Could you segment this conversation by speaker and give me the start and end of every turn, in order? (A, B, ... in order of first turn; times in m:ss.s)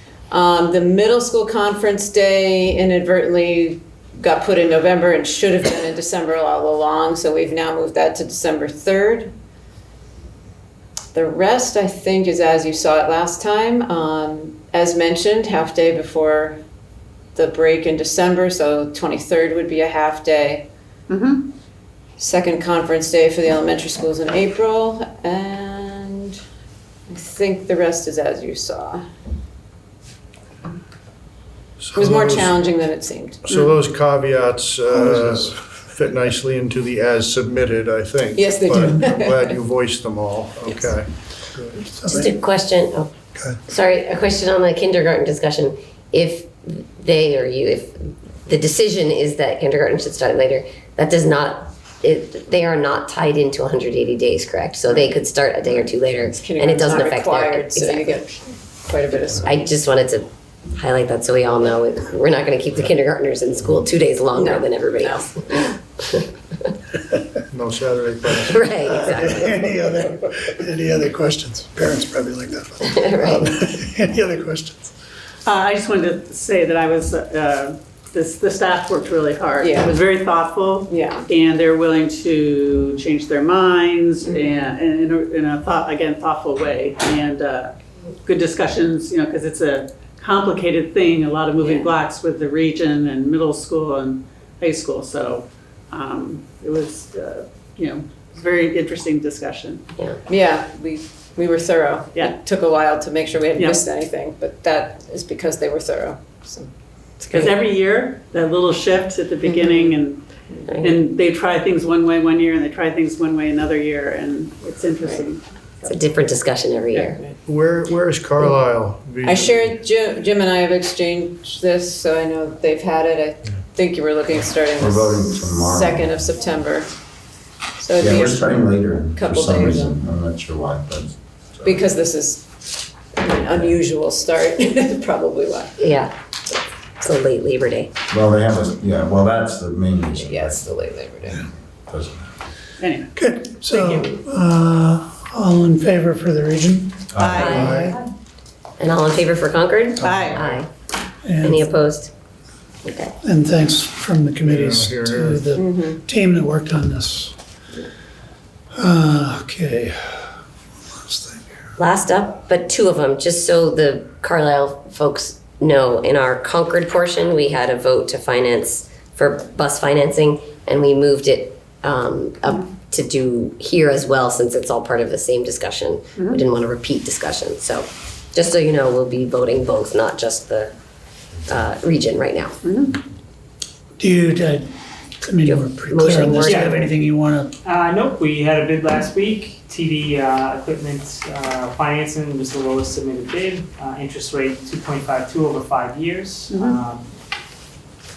0:00.3-0:09.3 A
0:11.1-0:16.6 A
0:17.4-0:20.7 A
0:21.1-0:21.5 B
0:22.2-0:26.4 A
0:27.1-0:29.0 A
0:31.8-0:32.4 C
0:32.0-0:33.5 A
0:32.1-0:32.4 D
0:33.6-0:35.4 D
0:35.0-0:36.1 C
0:36.1-0:41.1 D
0:38.4-0:39.5 A
0:38.7-0:39.4 C
0:40.7-0:42.3 C
0:42.0-0:43.1 E
0:43.7-0:58.1 E
0:56.3-0:59.5 A
0:59.4-1:06.3 E
1:04.4-1:05.3 A
1:07.5-1:08.3 D
1:08.3-1:14.9 C
1:08.4-1:09.6 E
1:12.9-1:13.6 E
1:15.5-1:27.7 B
1:19.6-1:19.9 A
1:20.9-1:21.3 A
1:28.2-1:39.8 B
1:31.6-1:31.9 E
1:40.3-1:46.7 A
1:47.2-1:50.2 B
1:50.8-1:55.9 B
1:55.9-1:57.2 E
1:57.5-1:59.7 D
1:59.2-2:06.9 A
2:04.8-2:06.2 F
2:07.8-2:10.0 A
2:08.0-2:11.1 F
2:11.6-2:12.6 A
2:13.2-2:15.8 A
2:15.8-2:16.1 E
2:17.0-2:17.9 E
2:18.1-2:20.7 F
2:20.1-2:21.5 A
2:21.9-2:22.3 F
2:22.8-2:24.1 B
2:23.2-2:28.0 C
2:27.1-2:27.7 F
2:27.2-2:27.7 B
2:27.3-2:28.0 E
2:28.8-2:30.7 E
2:30.0-2:30.4 B
2:31.2-2:31.7 C
2:31.4-2:32.1 E
2:32.8-2:33.1 E
2:33.2-2:37.4 C
2:35.6-2:35.9 A
2:38.8-2:40.3 C
2:40.9-2:41.6 C
2:41.8-3:00.7 E
3:01.5-3:02.6 E
3:02.6-3:03.0 B
3:04.0-3:04.7 C
3:05.2-3:07.5 C
3:05.4-3:06.9 E
3:06.4-3:06.9 G
3:07.6-3:17.1 G
3:16.5-3:16.8 B